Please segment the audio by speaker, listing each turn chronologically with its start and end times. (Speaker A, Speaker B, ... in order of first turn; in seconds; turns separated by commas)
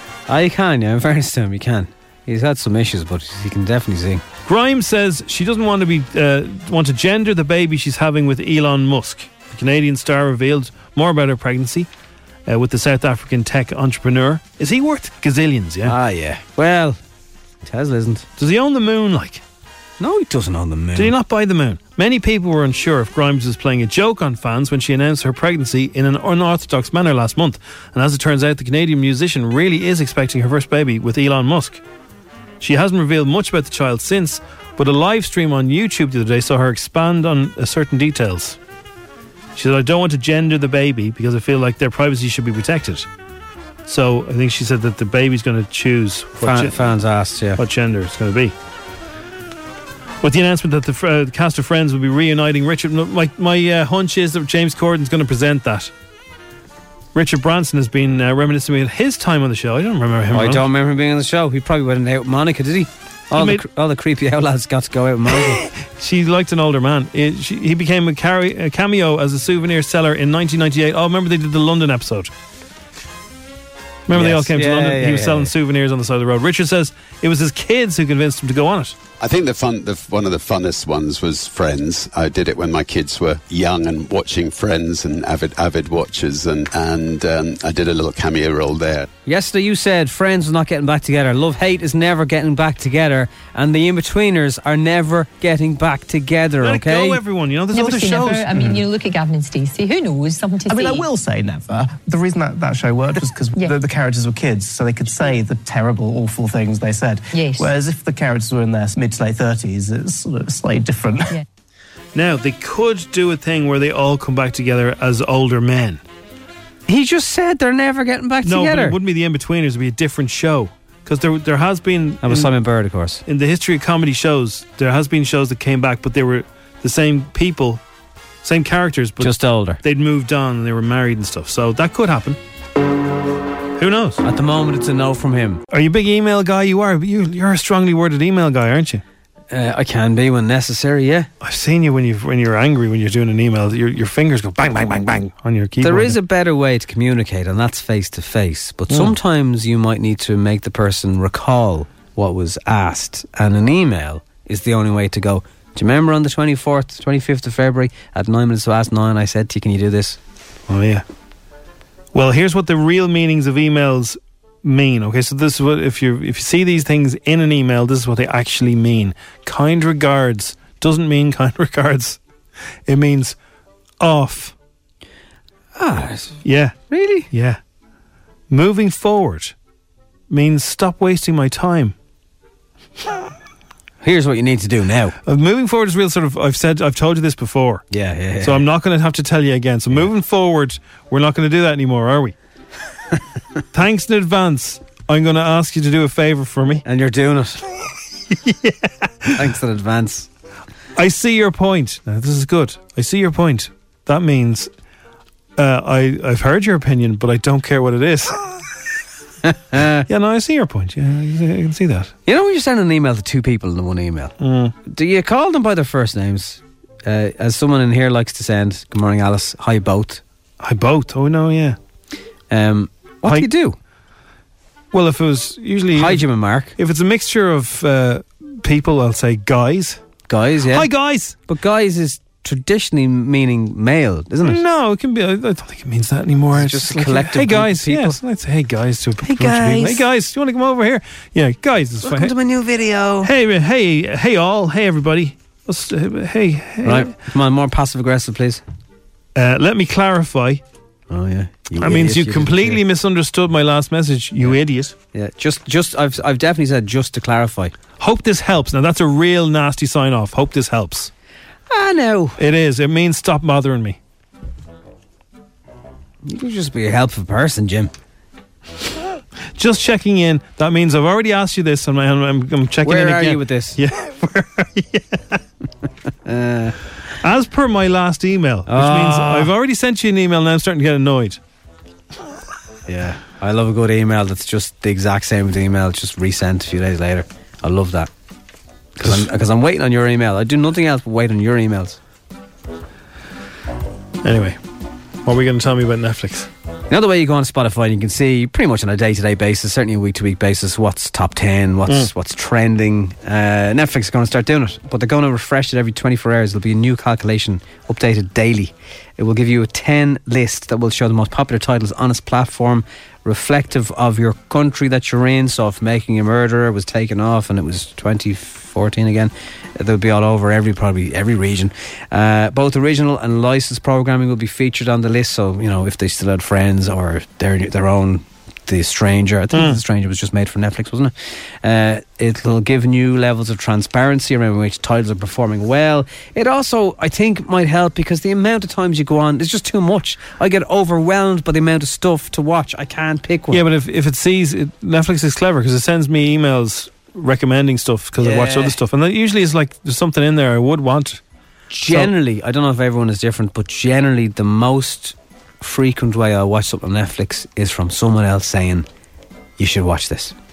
Speaker A: 0.3-4.2, Speaker B: 4.5-11.9, Speaker B: 12.5-15.9, Speaker A: 15.8-17.0, Speaker A: 17.6-18.3, Speaker B: 18.4-19.4, Speaker A: 20.0-21.1, Speaker B: 20.9-31.8, Speaker B: 32.6-38.6, Speaker B: 39.5-43.1, Speaker B: 43.9-46.8, Speaker A: 46.4-47.6, Speaker B: 47.6-48.5, Speaker B: 50.2-55.9, Speaker B: 57.1-60.6, Speaker A: 60.3-65.6, Speaker B: 63.3-63.6, Speaker B: 65.8-72.3, Speaker B: 74.1-79.0, Speaker A: 74.1-75.5, Speaker C: 79.2-89.1, Speaker A: 89.3-97.2, Speaker B: 96.6-98.7, Speaker D: 97.7-101.1, Speaker E: 100.7-111.4, Speaker D: 107.3-107.7, Speaker B: 112.1-116.0, Speaker A: 116.9-119.0, Speaker B: 118.4-122.5, Speaker A: 122.2-123.2, Speaker B: 123.3-127.8, Speaker B: 128.4-132.4, Speaker A: 129.2-129.8, Speaker B: 133.8-134.2, Speaker A: 134.2-135.6, Speaker B: 135.7-139.0, Speaker A: 139.5-141.3, Speaker B: 141.4-146.2, Speaker A: 145.8-160.2, Speaker B: 148.9-149.2, Speaker B: 160.7-161.0, Speaker B: 162.1-172.2, Speaker B: 172.9-173.4, Speaker B: 174.0-174.6, Speaker A: 175.8-177.3, Speaker B: 176.4-176.8, Speaker B: 177.3-177.6, Speaker B: 178.5-179.6, Speaker B: 180.3-181.9, Speaker A: 184.0-185.2, Speaker B: 185.2-187.8, Speaker A: 187.9-188.7, Speaker B: 188.4-192.3, Speaker B: 193.7-196.8, Speaker A: 196.8-197.6, Speaker B: 198.3-199.5, Speaker A: 199.4-200.3, Speaker B: 201.0-204.7, Speaker B: 205.6-208.4, Speaker A: 209.5-210.1, Speaker B: 210.1-212.1, Speaker A: 212.3-214.3, Speaker B: 214.4-214.8, Speaker A: 214.9-220.2, Speaker B: 220.6-221.8, Speaker A: 222.5-223.8, Speaker B: 224.9-226.2, Speaker A: 225.9-226.7, Speaker B: 226.8-230.0, Speaker A: 230.3-230.9, Speaker B: 230.7-231.4, Speaker A: 231.5-234.6, Speaker B: 234.4-242.3, Speaker A: 236.5-238.2, Speaker A: 239.2-240.0, Speaker A: 242.0-243.3, Speaker B: 243.2-247.1, Speaker A: 246.8-248.6, Speaker B: 249.3-250.6, Speaker A: 251.1-252.8, Speaker B: 251.8-254.9, Speaker A: 255.1-257.7, Speaker B: 258.0-261.1, Speaker A: 261.7-262.4, Speaker B: 262.4-264.0, Speaker A: 266.2-267.9, Speaker B: 269.6-275.4, Speaker A: 272.9-273.8, Speaker A: 276.2-276.8, Speaker B: 277.2-281.4, Speaker A: 278.7-279.5, Speaker A: 282.9-288.1, Speaker A: 289.0-292.0, Speaker B: 289.0-289.3, Speaker B: 294.2-294.6, Speaker B: 295.2-296.5, Speaker A: 296.9-343.6, Speaker B: 329.5-329.8, Speaker B: 343.5-351.2, Speaker A: 348.2-348.8, Speaker A: 351.7-358.9, Speaker B: 351.8-352.1, Speaker A: 359.6-360.4